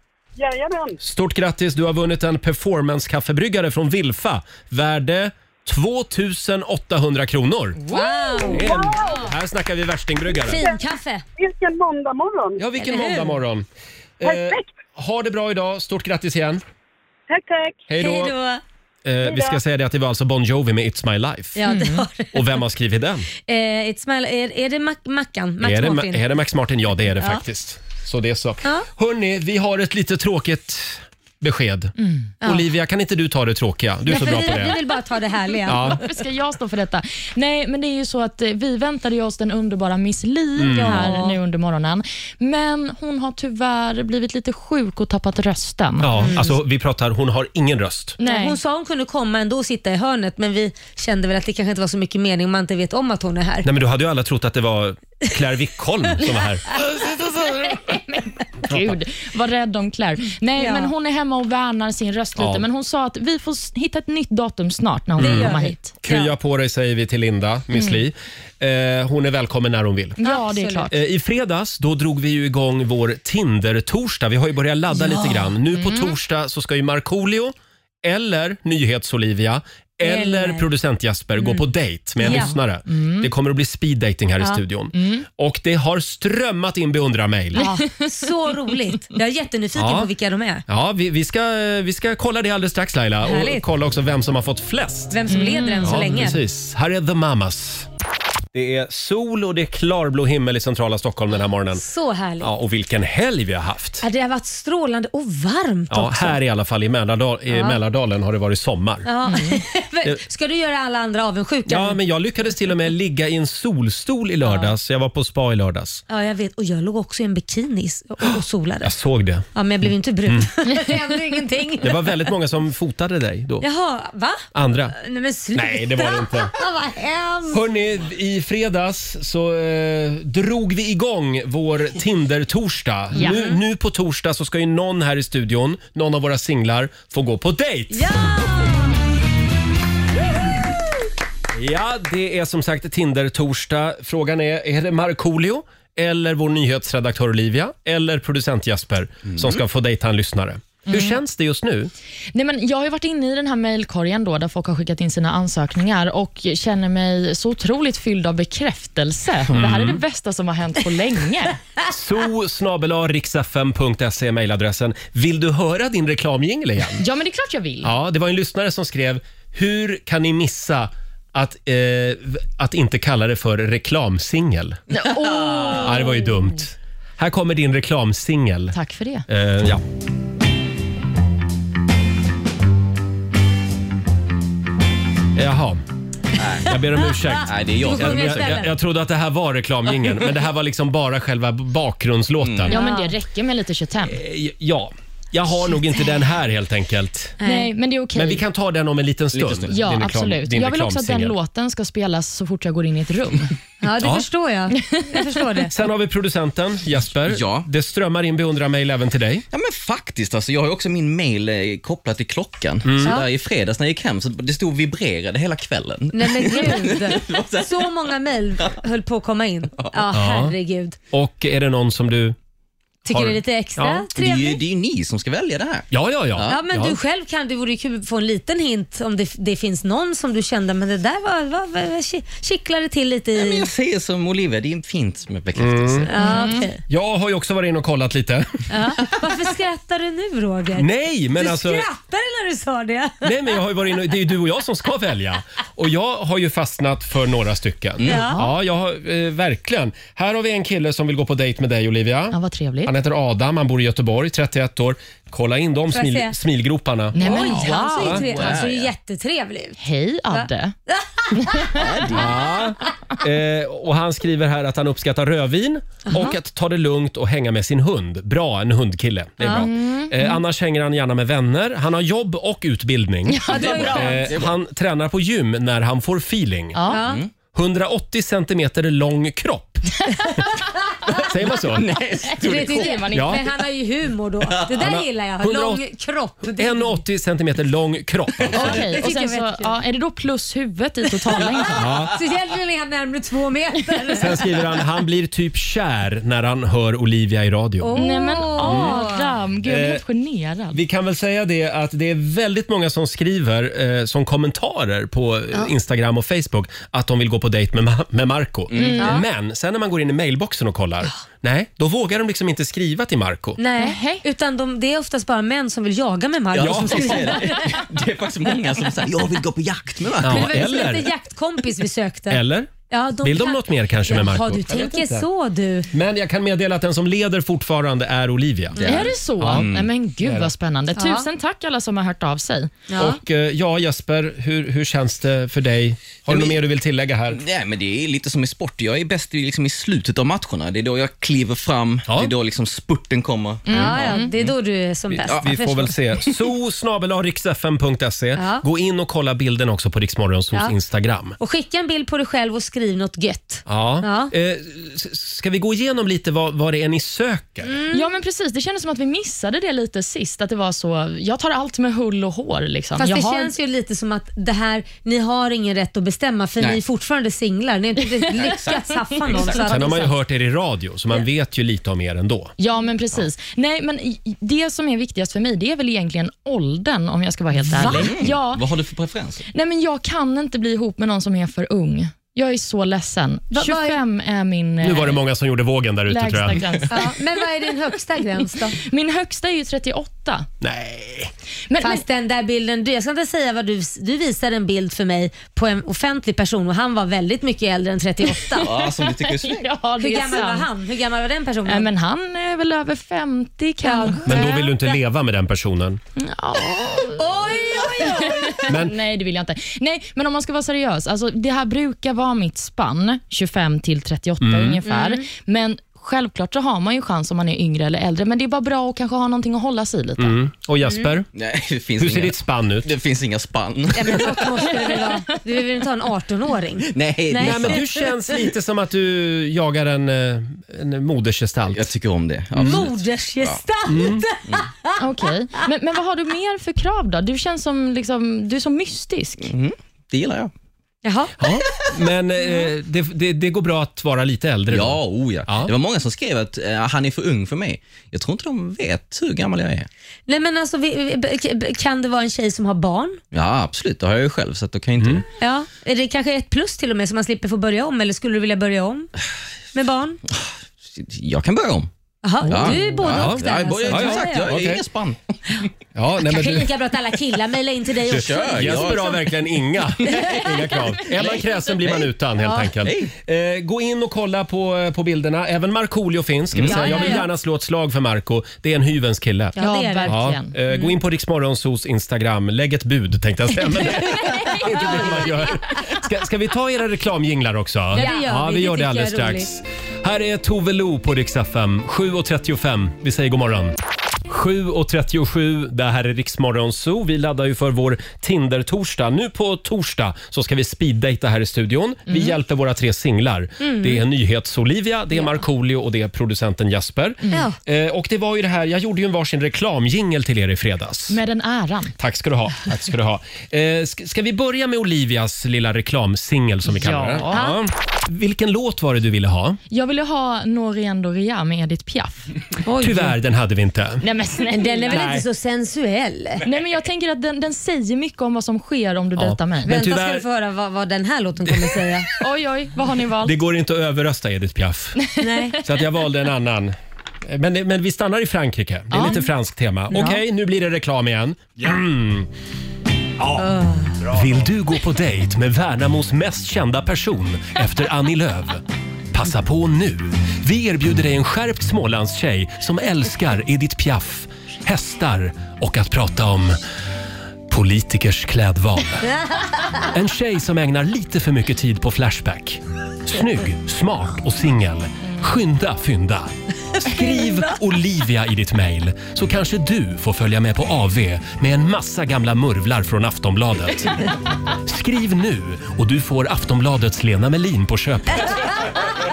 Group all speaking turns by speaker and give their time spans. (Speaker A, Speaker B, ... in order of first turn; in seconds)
Speaker A: 0.4-1.0, 8.5-9.2, 10.5-10.8, 11.4-12.6, 14.2-14.7, 17.3-17.8, 19.2-19.6
Speaker B: 1.0-7.8, 8.5-10.6, 12.6-13.7, 14.2-16.6, 17.9-18.4, 19.1-21.6, 22.3-23.3, 25.6-34.8, 35.7-36.0, 40.6-41.2, 46.0-48.2, 53.6-56.8, 62.4-62.6, 65.2-70.2, 70.9-87.6, 89.8-90.1, 90.7-95.2, 95.8-97.9, 98.5-101.8, 102.4-104.0, 105.9-109.1, 111.7-116.0, 118.3-119.5, 121.8-123.7, 124.5-125.0, 125.5-126.5, 127.5-138.5, 141.5-151.9, 159.5-160.0, 161.9-167.0, 167.8-174.8, 175.8-178.8, 179.3-179.8, 185.3-185.8, 186.6-192.7, 194.1-197.4, 198.2-201.3, 204.0-204.3, 205.7-209.4, 212.8-213.2, 220.1-220.6, 221.1-222.4, 223.1-224.1, 225.9-227.0, 235.6-236.1, 236.9-238.8, 240.7-241.9, 243.2-258.4, 262.1-276.8, 277.5-279.9, 281.3-281.9, 283.1-283.4, 284.8-285.8, 286.6-288.8, 291.8-292.1, 294.2-298.0, 298.6-299.0, 299.6-300.0, 300.7-313.6, 316.6-317.4, 320.2-321.1, 322.3-325.3, 325.9-329.7, 330.2-330.5, 333.0-337.4, 342.1-342.3, 345.1-351.4, 353.7-357.7, 369.7-372.5, 384.8-386.6, 390.6-391.3, 404.2-406.0, 408.7-408.9, 414.4-414.8, 420.2-421.3, 422.0-422.9, 427.4-431.9, 432.6-432.9, 433.9-434.2, 441.4-445.7, 455.0-455.2, 462.4-464.8, 465.9-466.7, 468.5-493.8, 494.3-511.2, 512.0-519.6, 522.8-524.0, 524.9-525.2, 529.2-530.2, 531.5-531.8, 533.2-535.0, 535.6-542.3, 544.1-556.6, 557.5-559.1, 559.9-578.4
Speaker C: 7.8-8.6, 21.7-22.1, 32.0-32.3, 35.7-46.4, 48.2-48.6, 58.6-65.9, 70.2-70.9, 75.7-76.1, 82.2-83.3, 85.0-85.2, 87.6-88.2, 95.3-96.0, 109.3-109.6, 133.2-133.4, 150.9-151.2, 152.3-161.6, 167.0-167.9, 174.9-176.3, 178.7-179.3, 192.7-194.2, 197.4-198.4, 199.7-203.5, 204.9-205.2, 236.2-236.7, 252.3-252.9, 257.1-258.5, 259.8-260.7, 261.4-261.8, 269.5-270.4, 273.3-274.2, 276.7-277.0, 282.5-283.4, 288.5-291.8, 298.0-300.8, 308.8-309.2, 313.8-314.2, 328.8-332.7, 343.7-344.3, 357.9-363.5, 372.6-378.6, 379.5-385.2, 386.1-387.1, 388.7-390.5, 391.7-392.0, 398.6-400.7, 401.7-404.6, 406.2-420.4, 435.0-439.5, 479.6-480.6, 484.5-485.1, 488.0-488.2, 502.1-502.3, 511.1-512.0, 516.7-517.5, 519.7-522.2, 524.0-525.0, 526.5-529.7, 532.2-533.4, 535.0-535.6, 538.9-539.2
Speaker D: 7.9-9.3, 10.5-11.2, 12.8-13.3, 18.0-18.6, 21.6-22.6, 23.5-26.2, 34.1-36.0, 40.7-41.4, 46.2-46.5, 48.2-53.7, 60.6-60.9, 65.2-66.3, 70.2-70.9, 75.0-75.5, 80.0-80.7, 82.2-82.5, 87.6-90.6, 93.2-93.7, 95.1-96.4, 101.8-102.5, 104.0-106.4, 107.5-107.8, 109.0-112.0, 114.5-114.7, 116.1-119.0, 119.5-122.0, 123.6-124.4, 125.0-127.6, 133.2-133.6, 137.9-139.0, 187.3-188.7, 192.7-193.1, 197.4-197.7, 203.8-205.8, 216.1-221.0, 223.1-224.6, 226.5-233.7, 236.1-236.8, 238.7-243.6, 248.0-248.4, 255.9-256.4, 257.2-259.8, 260.3-261.7, 266.1-266.3, 269.4-269.7, 273.5-274.2, 276.9-277.2, 282.4-287.0, 288.5-289.8, 292.1-294.6, 297.8-299.3, 309.0-309.2, 313.6-317.8, 320.2-325.9, 328.8-329.1, 331.0-331.3, 332.9-333.2, 343.7-345.9, 348.4-348.6, 351.4-354.3, 357.6-358.1, 363.0-370.1, 383.5-384.0, 386.9-388.8, 391.8-398.7, 400.0-401.9, 403.8-404.8, 407.2-408.7, 414.9-415.2, 420.9-421.1, 423.9-428.2, 432.6-434.9, 441.0-442.0, 450.3-453.2, 455.4-459.1, 459.7-460.2, 462.2-464.5, 466.2-469.2, 470.1-470.5, 472.4-472.7, 476.6-477.3, 479.6-480.2, 480.7-480.9, 484.1-485.3, 487.9-489.5, 503.6-504.0, 507.3-507.6, 522.7-523.1, 524.5-526.4, 529.7-532.1, 535.2-535.6, 543.4-544.0
Speaker E: 149.3-149.6, 186.4-186.8, 187.5-188.7, 192.4-192.7, 199.3-199.7, 207.3-207.7, 209.5-217.9, 224.2-226.6, 233.3-236.1, 248.0-248.3, 257.2-258.9, 261.8-262.4, 273.6-274.6, 277.0-277.3, 281.1-283.1, 308.7-309.1, 316.5-320.9, 328.8-329.9, 336.3-336.6, 337.3-344.5, 368.3-369.7, 377.8-379.5, 398.6-399.6, 421.3-424.9, 426.8-427.9, 431.7-433.6, 439.4-440.5, 444.7-449.9, 453.3-455.2, 460.3-461.9, 462.5-465.3, 468.1-469.1, 472.8-473.1, 476.5-476.9